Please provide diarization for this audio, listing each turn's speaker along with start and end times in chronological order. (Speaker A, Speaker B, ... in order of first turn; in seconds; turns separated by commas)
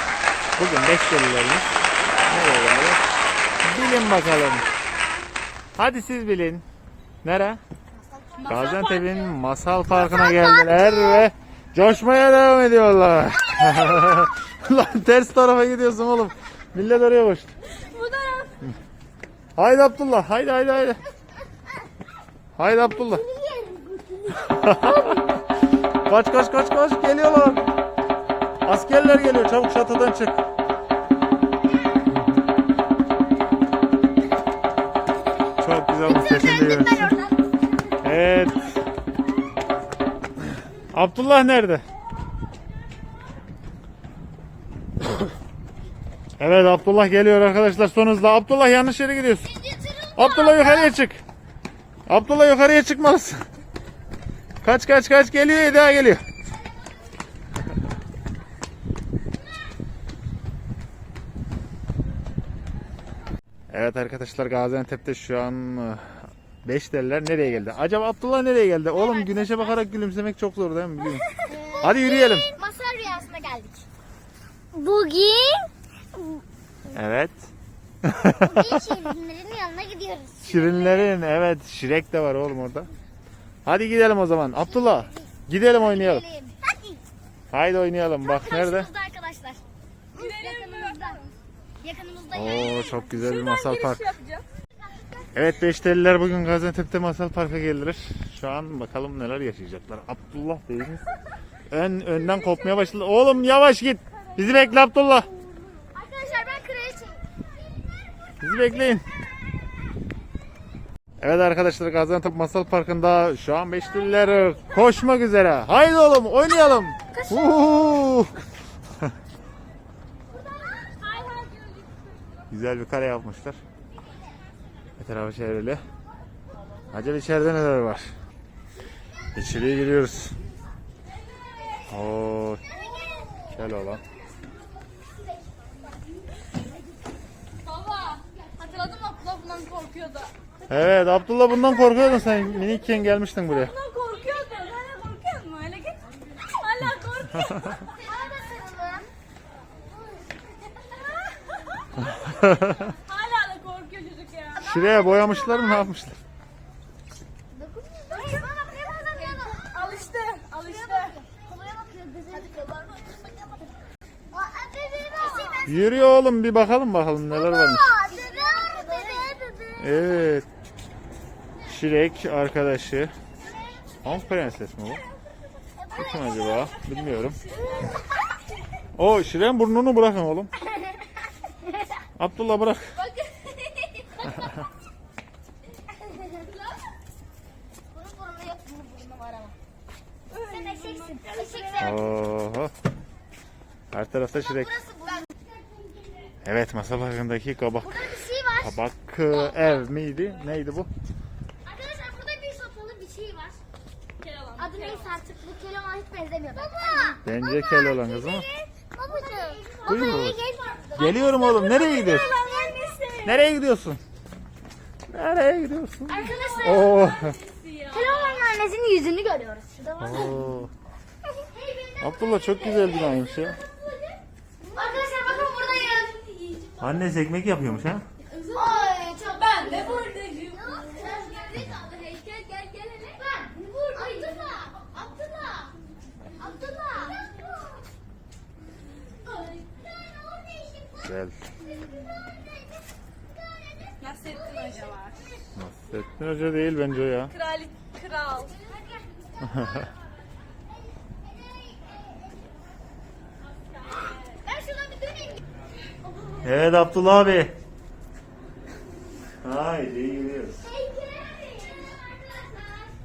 Speaker A: 0.6-1.7, Speaker A: 2.3-3.0, Speaker A: 3.6-4.7, Speaker B: 3.8-5.1, Speaker A: 5.8-6.6, Speaker A: 7.2-7.6, Speaker C: 8.4-9.4, Speaker A: 8.5-17.5, Speaker B: 9.9-11.3, Speaker B: 13.6-14.1, Speaker C: 17.7-18.6, Speaker A: 19.6-21.0, Speaker A: 22.6-23.2, Speaker B: 22.8-25.3, Speaker A: 24.3-25.3, Speaker A: 26.1-27.7, Speaker A: 28.6-30.4, Speaker A: 35.6-37.1, Speaker B: 36.0-37.4, Speaker A: 38.0-38.7, Speaker A: 40.9-41.8, Speaker A: 46.4-49.5, Speaker B: 49.6-51.0, Speaker A: 50.1-51.2, Speaker A: 52.1-53.4, Speaker A: 54.6-56.2, Speaker A: 63.7-71.3, Speaker B: 69.0-69.8, Speaker B: 71.4-73.8, Speaker A: 71.8-72.5, Speaker B: 74.7-76.4, Speaker A: 76.9-77.5, Speaker A: 78.0-78.9, Speaker B: 78.3-81.1, Speaker A: 80.4-82.9, Speaker A: 83.7-86.2, Speaker B: 84.8-87.0, Speaker A: 87.5-88.9, Speaker B: 88.2-89.6, Speaker C: 90.1-91.3, Speaker B: 90.2-91.2, Speaker B: 91.8-93.1, Speaker A: 92.3-94.1, Speaker C: 93.0-94.5, Speaker A: 95.3-101.0, Speaker A: 101.7-105.3, Speaker B: 105.9-107.2, Speaker A: 108.4-109.0, Speaker A: 111.2-118.3, Speaker C: 117.1-117.9, Speaker C: 120.8-122.0, Speaker A: 122.5-123.6, Speaker A: 125.0-125.8, Speaker A: 126.9-128.1, Speaker A: 129.3-130.4, Speaker A: 131.9-132.6, Speaker B: 132.7-133.7, Speaker A: 133.5-134.0, Speaker C: 137.6-140.3, Speaker A: 140.7-143.8, Speaker C: 143.5-148.0, Speaker B: 148.0-149.1, Speaker A: 152.0-152.9, Speaker C: 152.9-154.9, Speaker A: 154.6-156.2, Speaker B: 154.8-155.7, Speaker B: 157.5-159.9, Speaker C: 159.2-161.2, Speaker B: 160.6-163.2, Speaker C: 162.9-163.2, Speaker B: 164.3-165.8, Speaker A: 165.7-167.9, Speaker B: 167.3-170.0, Speaker C: 168.1-169.2, Speaker A: 169.8-170.5, Speaker A: 171.6-173.1, Speaker B: 173.4-174.0, Speaker A: 174.0-175.0, Speaker B: 175.8-176.7, Speaker A: 175.9-177.4, Speaker C: 176.8-177.8, Speaker A: 179.0-180.5, Speaker A: 182.2-182.9, Speaker C: 183.1-183.5, Speaker B: 187.9-189.6, Speaker C: 190.3-192.0, Speaker B: 190.3-192.1, Speaker A: 191.8-192.7, Speaker A: 193.9-194.7, Speaker B: 194.4-195.5, Speaker A: 196.4-200.9, Speaker B: 197.8-198.8, Speaker B: 201.7-203.6, Speaker C: 204.2-205.1, Speaker B: 204.6-212.8, Speaker C: 206.9-207.2, Speaker A: 207.2-208.5, Speaker C: 209.2-209.7, Speaker A: 209.8-210.4, Speaker A: 211.0-212.3, Speaker C: 212.0-213.5, Speaker A: 213.2-214.0, Speaker A: 215.1-217.4, Speaker C: 216.1-218.5, Speaker B: 216.2-216.8, Speaker B: 217.9-220.4, Speaker A: 220.0-220.7, Speaker B: 221.4-223.2, Speaker A: 222.0-223.6, Speaker B: 224.7-226.1, Speaker C: 225.0-226.8, Speaker A: 226.8-228.1, Speaker C: 228.3-234.3, Speaker B: 228.5-231.9, Speaker B: 233.4-235.7, Speaker B: 236.4-237.5, Speaker B: 239.4-241.0, Speaker A: 241.0-241.4, Speaker C: 244.0-245.4, Speaker A: 245.6-247.3, Speaker C: 247.3-248.6, Speaker A: 249.4-249.9, Speaker B: 251.5-252.1, Speaker B: 254.2-255.4, Speaker A: 256.4-257.5, Speaker A: 259.4-260.7, Speaker B: 260.8-262.7